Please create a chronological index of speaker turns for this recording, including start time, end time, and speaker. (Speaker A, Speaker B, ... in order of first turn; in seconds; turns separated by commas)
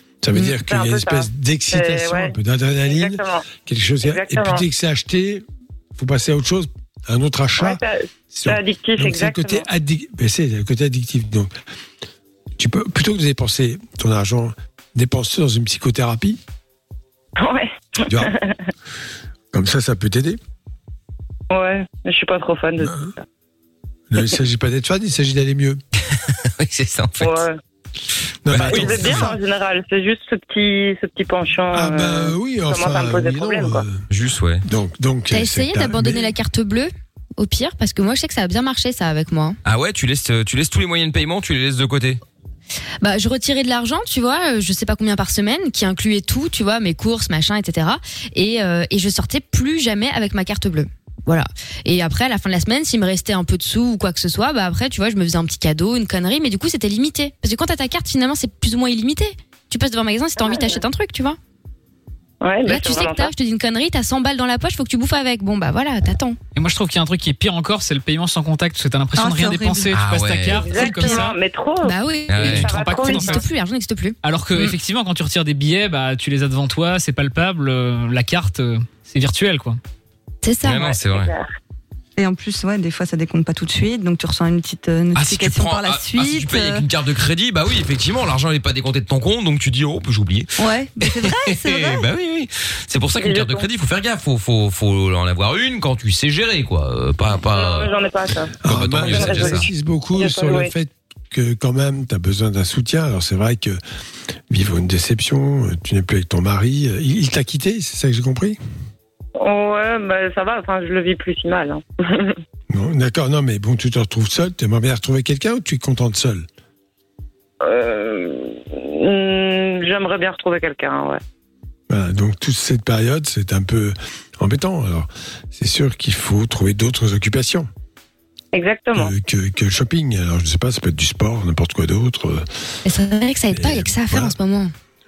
Speaker A: 0.2-5.4, Speaker B: 0.5-2.4, Speaker B: 2.9-3.5, Speaker B: 4.0-4.6, Speaker A: 6.0-11.5, Speaker B: 7.6-9.7, Speaker A: 12.6-16.4, Speaker B: 17.4-18.6, Speaker A: 18.1-18.3, Speaker A: 19.5-20.4, Speaker B: 21.5-23.2, Speaker A: 22.8-23.1, Speaker A: 24.1-25.8, Speaker C: 26.3-27.4, Speaker B: 27.2-27.6, Speaker A: 28.5-29.4, Speaker C: 28.5-29.3, Speaker B: 28.6-33.8, Speaker A: 31.7-34.0, Speaker C: 34.1-34.6, Speaker A: 34.6-36.3, Speaker D: 35.3-39.6, Speaker C: 39.6-42.2, Speaker D: 43.0-61.4, Speaker B: 60.4-60.8, Speaker B: 62.4-63.3, Speaker D: 62.7-66.4, Speaker E: 66.5-71.4, Speaker F: 69.2-70.0, Speaker C: 69.9-70.7, Speaker B: 70.5-73.4, Speaker D: 71.8-74.7, Speaker C: 72.3-72.7, Speaker E: 72.3-73.5, Speaker E: 74.2-79.8, Speaker D: 80.4-80.9, Speaker C: 80.6-81.3, Speaker B: 80.7-81.5, Speaker F: 82.2-86.9, Speaker C: 85.2-97.9, Speaker F: 90.6-92.0, Speaker B: 93.2-93.7, Speaker B: 97.5-99.6, Speaker A: 98.6-103.8, Speaker C: 98.7-99.7, Speaker B: 100.2-100.7, Speaker A: 104.5-108.6, Speaker B: 109.4-112.4, Speaker A: 112.7-116.5, Speaker B: 117.6-121.2, Speaker A: 121.9-127.7, Speaker B: 128.5-129.1, Speaker A: 128.9-132.5, Speaker D: 132.8-134.7, Speaker A: 133.5-134.3